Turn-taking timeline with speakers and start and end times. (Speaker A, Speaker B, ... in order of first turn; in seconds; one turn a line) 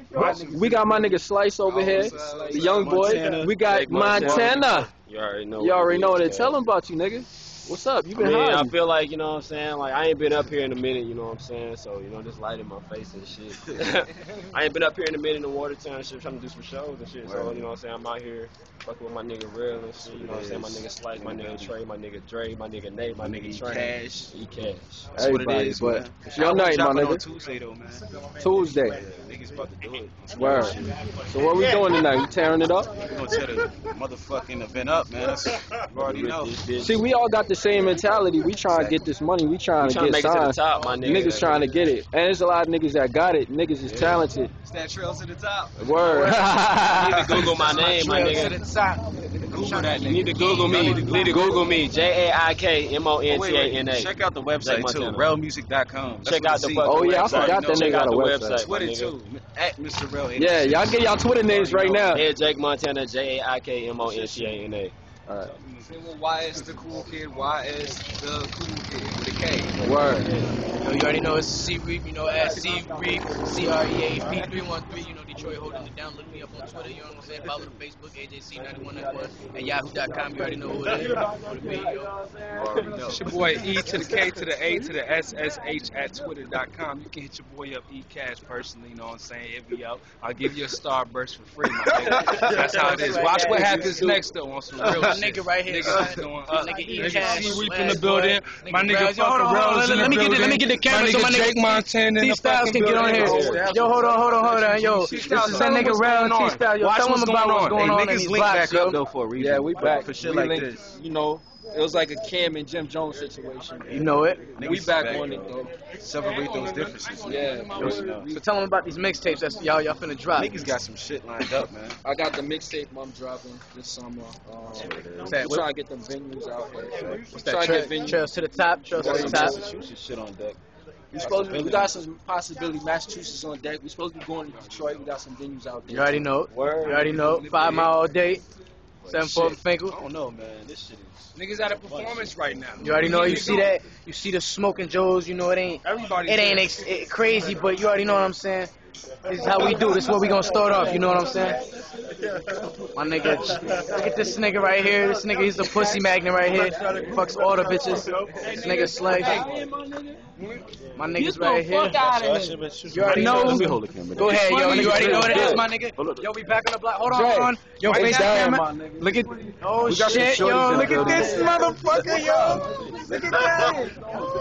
Speaker A: 0.1-4.6
Speaker B: 0.1-4.9
Speaker C: 1.9-3.0
Speaker D: 3.6-6.5
Speaker B: 5.6-8.7
Speaker D: 8.1-25.1
Speaker A: 17.2-17.7
Speaker A: 20.0-21.7
Speaker A: 23.2-24.3
Speaker A: 25.2-28.0
Speaker B: 25.2-27.2
Speaker B: 28.4-29.0
Speaker A: 28.9-30.9
Speaker B: 30.4-30.8
Speaker B: 31.3-32.9
Speaker A: 33.0-36.6
Speaker D: 36.1-37.0
Speaker B: 36.8-44.5
Speaker D: 38.7-39.0
Speaker D: 39.8-41.9
Speaker A: 43.8-45.7
Speaker B: 45.8-47.3
Speaker E: 45.9-46.5
Speaker D: 47.0-48.6
Speaker E: 47.5-51.4
Speaker A: 49.5-51.5
Speaker C: 49.6-51.4
Speaker D: 50.0-55.3
Speaker A: 53.3-62.2
Speaker D: 56.2-59.1
Speaker B: 56.8-58.7
Speaker B: 60.4-62.2
Speaker D: 62.1-64.9
Speaker A: 64.0-64.6
Speaker B: 65.3-65.5
Speaker A: 65.4-67.5
Speaker C: 65.9-69.8
Speaker B: 69.8-70.4
Speaker E: 70.8-82.1
Speaker A: 82.5-83.3
Speaker C: 83.1-103.7
Speaker A: 91.9-92.4
Speaker E: 92.7-93.8
Speaker E: 94.9-109.0
Speaker B: 103.0-104.1
Speaker D: 103.0-103.9
Speaker A: 103.3-103.6
Speaker A: 104.2-105.9
Speaker C: 104.7-107.8
Speaker B: 105.3-105.6
Speaker A: 107.8-110.8
Speaker B: 109.4-115.7
Speaker A: 113.8-118.3
Speaker E: 113.9-114.4
Speaker C: 116.6-118.1
Speaker B: 117.2-118.4
Speaker E: 118.3-120.6
Speaker A: 120.3-122.0
Speaker B: 122.0-128.2
Speaker A: 124.7-125.4
Speaker E: 125.3-125.7
Speaker E: 127.3-129.6
Speaker A: 128.9-130.6
Speaker B: 129.0-129.6
Speaker B: 131.1-136.3
Speaker A: 131.2-131.9
Speaker E: 135.9-138.4
Speaker D: 136.5-137.0
Speaker C: 136.9-137.9
Speaker A: 137.5-137.9
Speaker A: 139.1-143.2
Speaker E: 139.1-140.0
Speaker C: 141.4-143.7
Speaker E: 142.8-148.7
Speaker C: 145.9-146.8
Speaker E: 149.3-151.6
Speaker E: 153.0-159.5
Speaker C: 158.4-159.4
Speaker B: 158.4-160.2
Speaker E: 161.0-162.1
Speaker B: 161.2-162.6
Speaker A: 162.3-166.3
Speaker E: 162.9-172.7
Speaker B: 163.2-163.6
Speaker C: 163.2-163.4
Speaker C: 164.3-165.6
Speaker B: 164.7-165.6
Speaker B: 167.1-169.4
Speaker C: 167.9-168.4
Speaker A: 169.8-171.5
Speaker B: 170.1-173.9
Speaker A: 173.1-173.8